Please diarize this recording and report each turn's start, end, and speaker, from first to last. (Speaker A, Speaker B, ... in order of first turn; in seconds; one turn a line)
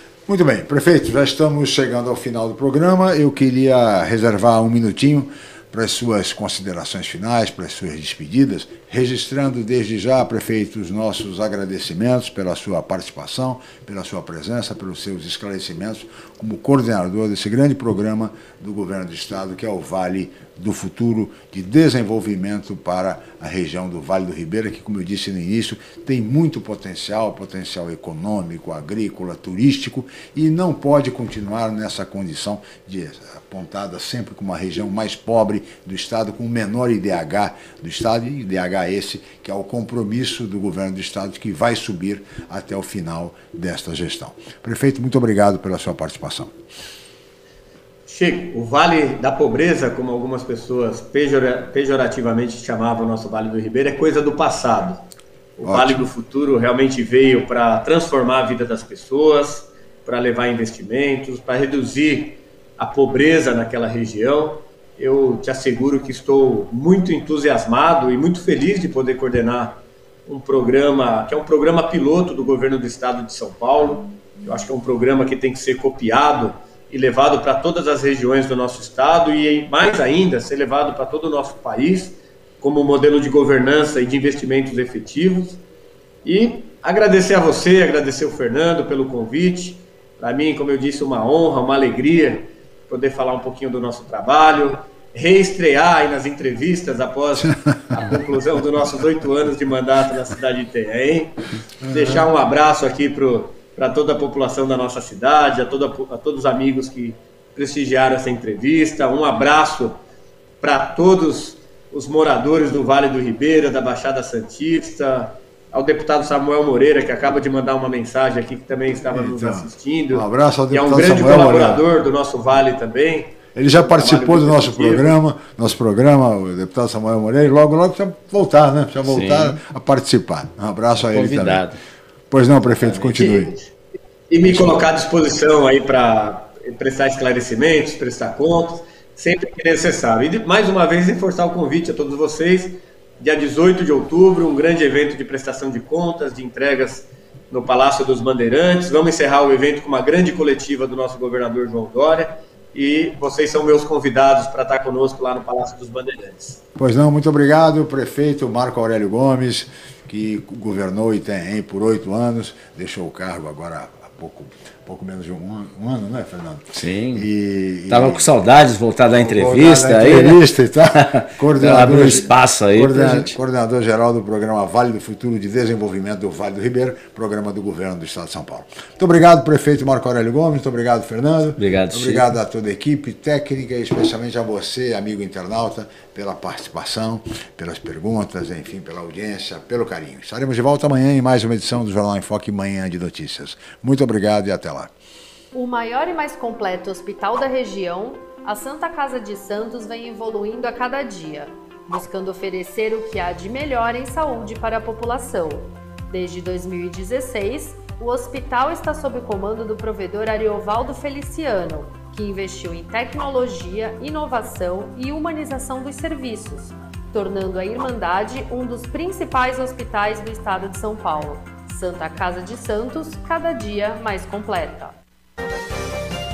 Speaker A: 0.3-46.6
Speaker B: 48.1-55.0
Speaker B: 55.6-85.6
Speaker A: 55.6-56.1
Speaker B: 86.2-101.4
Speaker A: 97.3-98.0
Speaker A: 101.8-102.3
Speaker B: 101.9-110.0
Speaker B: 110.6-125.1
Speaker A: 119.0-121.8
Speaker A: 123.5-131.7
Speaker C: 129.0-129.6
Speaker C: 131.0-131.8
Speaker A: 132.3-133.5
Speaker B: 132.7-133.7
Speaker B: 134.3-156.6
Speaker A: 134.4-134.8
Speaker A: 156.8-168.3
Speaker C: 166.7-167.3
Speaker C: 167.9-173.4
Speaker A: 169.1-194.9
Speaker C: 181.6-182.2
Speaker D: 195.5-225.0